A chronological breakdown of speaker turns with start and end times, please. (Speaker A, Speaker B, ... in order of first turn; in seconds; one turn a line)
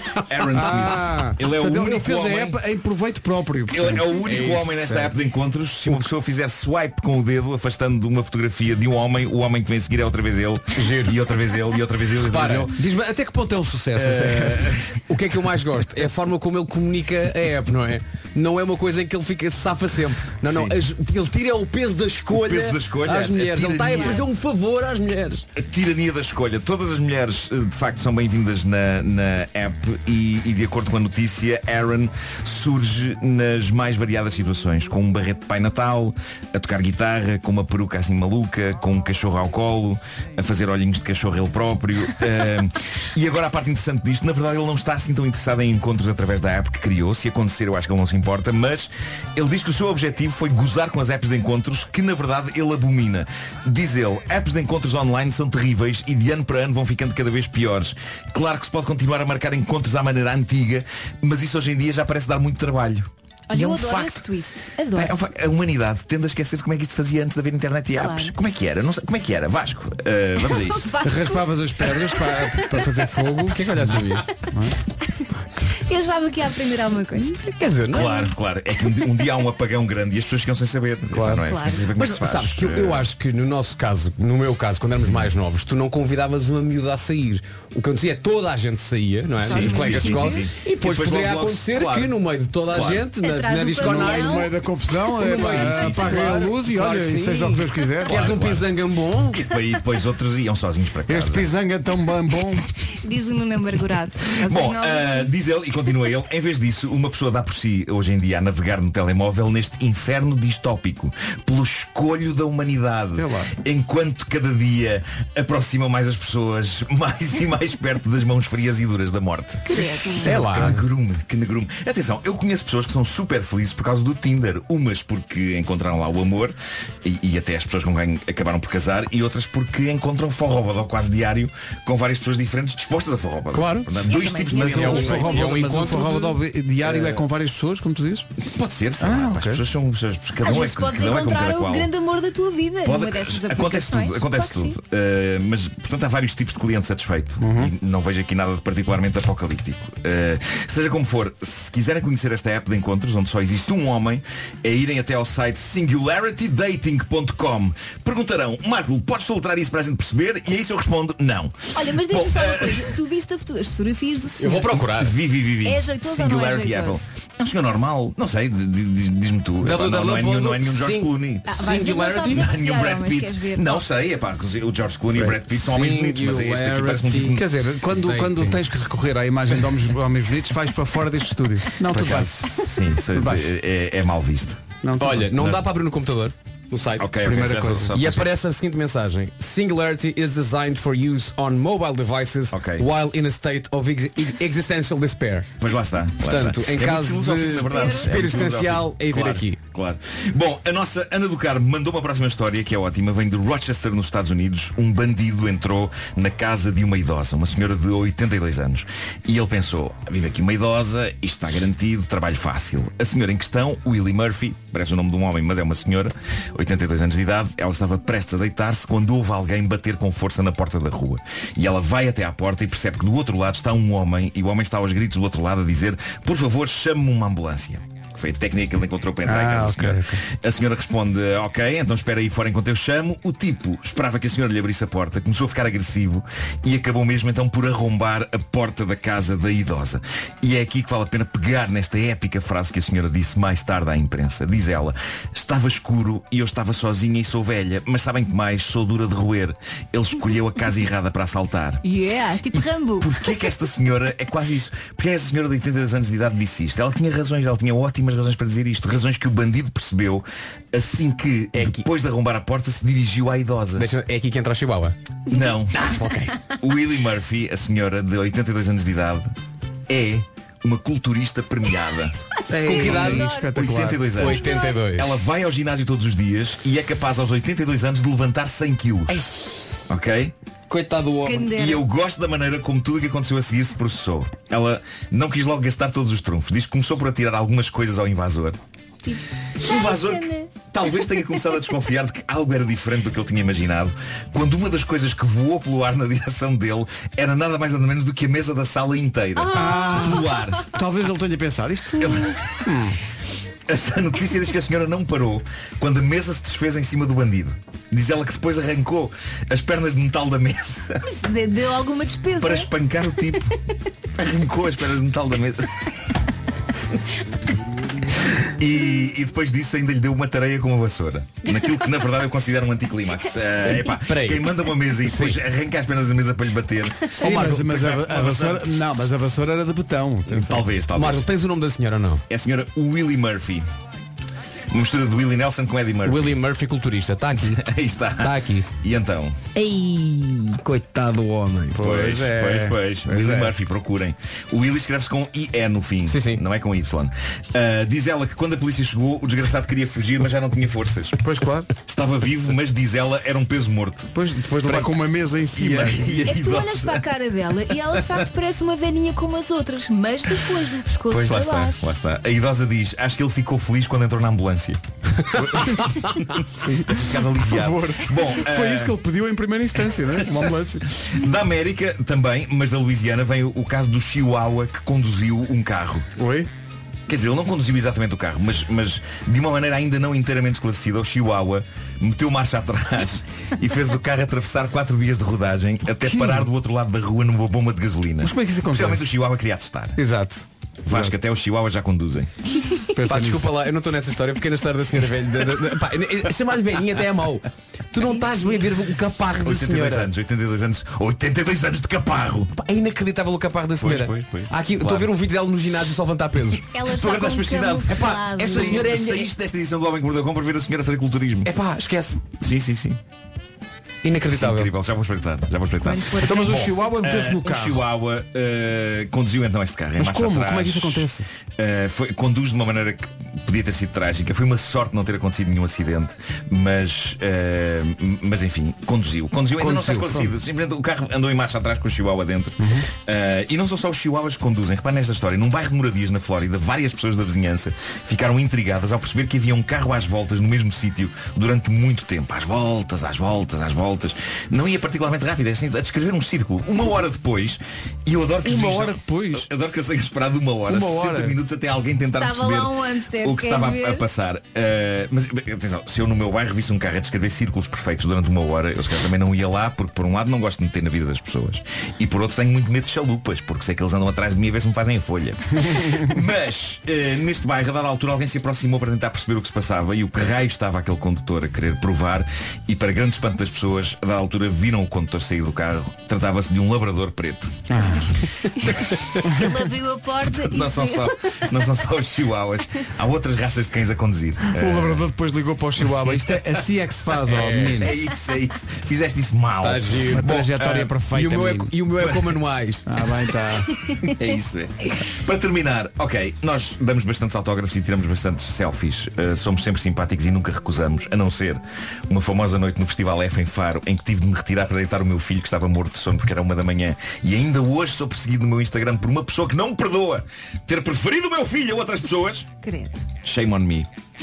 Speaker A: 0.2-2.6
Speaker B: 0.5-4.1
Speaker A: 3.7-12.7
Speaker C: 4.2-4.9
Speaker B: 4.8-5.1
Speaker C: 10.7-11.2
Speaker C: 12.2-12.7
Speaker B: 12.4-14.8
Speaker A: 13.9-14.8
Speaker C: 15.1-25.4
Speaker A: 20.4-20.7
Speaker A: 22.3-24.2
Speaker D: 23.9-24.2
Speaker A: 25.6-64.2
Speaker D: 63.5-65.1
Speaker A: 64.9-71.0
Speaker D: 68.0-68.3
Speaker D: 70.5-71.4
Speaker B: 71.0-74.8
Speaker C: 73.3-74.3
Speaker D: 75.8-77.5
Speaker C: 77.3-78.3
Speaker A: 77.9-83.1
Speaker B: 81.1-81.4
Speaker D: 81.4-81.9
Speaker C: 81.9-94.5
Speaker D: 89.4-90.5
Speaker A: 89.4-92.1
Speaker A: 92.7-93.1
Speaker D: 93.2-94.5
Speaker B: 93.8-98.3
Speaker C: 95.2-99.4
Speaker A: 95.2-96.5
Speaker A: 98.0-98.7
Speaker A: 99.3-101.5
Speaker B: 101.1-102.6
Speaker D: 103.0-105.3
Speaker A: 104.3-135.5
Speaker B: 113.2-113.5
Speaker D: 119.7-120.2
Speaker C: 120.2-120.8
Speaker C: 133.5-133.9
Speaker D: 134.1-135.6
Speaker B: 134.5-138.3
Speaker C: 134.6-136.4
Speaker A: 136.8-137.1
Speaker A: 138.4-141.9
Speaker B: 139.0-139.6
Speaker D: 140.4-144.8
Speaker A: 142.8-162.9
Speaker B: 147.4-147.7
Speaker D: 161.7-164.8
Speaker C: 164.4-165.1
Speaker A: 164.8-177.5
Speaker D: 165.6-167.1
Speaker C: 169.6-172.5
Speaker D: 171.5-173.8
Speaker C: 175.1-178.6
Speaker B: 177.3-182.4
Speaker A: 181.8-184.6
Speaker B: 183.1-183.5
Speaker B: 184.8-185.3
Speaker C: 185.0-187.1
Speaker A: 187.0-188.3
Speaker B: 187.2-187.9
Speaker C: 187.9-195.5
Speaker A: 192.5-192.8
Speaker A: 195.6-251.8
Speaker C: 196.2-199.6
Speaker D: 197.7-198.5
Speaker B: 229.2-230.2
Speaker D: 251.8-253.1
Speaker A: 252.5-263.9
Speaker C: 261.5-261.9
Speaker C: 263.8-264.9
Speaker A: 265.3-266.0
Speaker C: 265.7-266.3
Speaker A: 266.6-269.3
Speaker A: 269.9-272.1
Speaker D: 272.5-273.5
Speaker B: 272.5-274.1
Speaker C: 272.5-273.3
Speaker A: 272.8-279.2
Speaker C: 274.2-275.1
Speaker D: 274.3-274.7
Speaker C: 279.1-279.7
Speaker A: 279.9-280.3
Speaker C: 280.7-281.5
Speaker D: 281.2-281.8
Speaker A: 281.5-288.6
Speaker D: 289.0-290.5
Speaker A: 289.6-300.6
Speaker D: 299.4-300.4
Speaker B: 299.5-303.0
Speaker A: 302.0-302.3
Speaker A: 303.7-311.0
Speaker D: 311.1-312.7
Speaker A: 312.4-313.5
Speaker A: 314.2-315.8
Speaker A: 318.5-328.9
Speaker C: 323.6-325.4
Speaker B: 327.1-330.7
Speaker C: 327.2-327.7
Speaker A: 330.3-331.3
Speaker C: 330.9-332.2
Speaker A: 332.3-333.6
Speaker A: 334.7-336.4
Speaker C: 336.0-337.7
Speaker A: 337.5-339.4
Speaker C: 338.2-338.7
Speaker C: 339.5-341.8
Speaker B: 341.7-343.5
Speaker A: 341.8-351.2
Speaker C: 346.1-346.4
Speaker B: 351.2-351.7
Speaker A: 351.8-354.1
Speaker B: 354.1-356.1
Speaker A: 354.6-354.9
Speaker A: 355.5-357.1
Speaker D: 356.1-361.8
Speaker A: 361.1-364.8
Speaker A: 365.3-368.9
Speaker B: 365.4-370.9
Speaker A: 370.3-376.1
Speaker B: 376.2-376.5
Speaker A: 377.1-390.0
Speaker B: 386.0-386.5
Speaker B: 388.2-389.1
Speaker B: 389.9-391.1
Speaker A: 390.9-392.3
Speaker B: 392.9-393.5
Speaker C: 393.1-400.1
Speaker A: 399.4-402.5
Speaker C: 402.5-406.7
Speaker A: 403.8-405.1
Speaker D: 406.7-409.1
Speaker A: 406.8-411.5
Speaker C: 408.5-409.2
Speaker C: 411.4-412.2
Speaker A: 412.3-413.0
Speaker C: 414.0-414.7
Speaker A: 414.3-477.6
Speaker D: 415.8-416.7
Speaker B: 416.2-417.9
Speaker B: 420.0-421.2
Speaker B: 429.6-430.3
Speaker B: 432.6-432.9
Speaker B: 448.4-449.5
Speaker B: 450.7-451.4
Speaker D: 452.1-454.1
Speaker B: 477.7-478.1
Speaker B: 479.2-479.5
Speaker D: 479.3-481.4
Speaker A: 480.2-485.1
Speaker B: 484.5-487.9
Speaker C: 487.3-487.9
Speaker A: 487.8-490.9
Speaker C: 489.6-492.9
Speaker B: 490.1-491.7
Speaker A: 492.0-492.3
Speaker B: 492.9-493.7
Speaker A: 494.0-512.5
Speaker D: 512.6-513.1
Speaker A: 513.2-513.9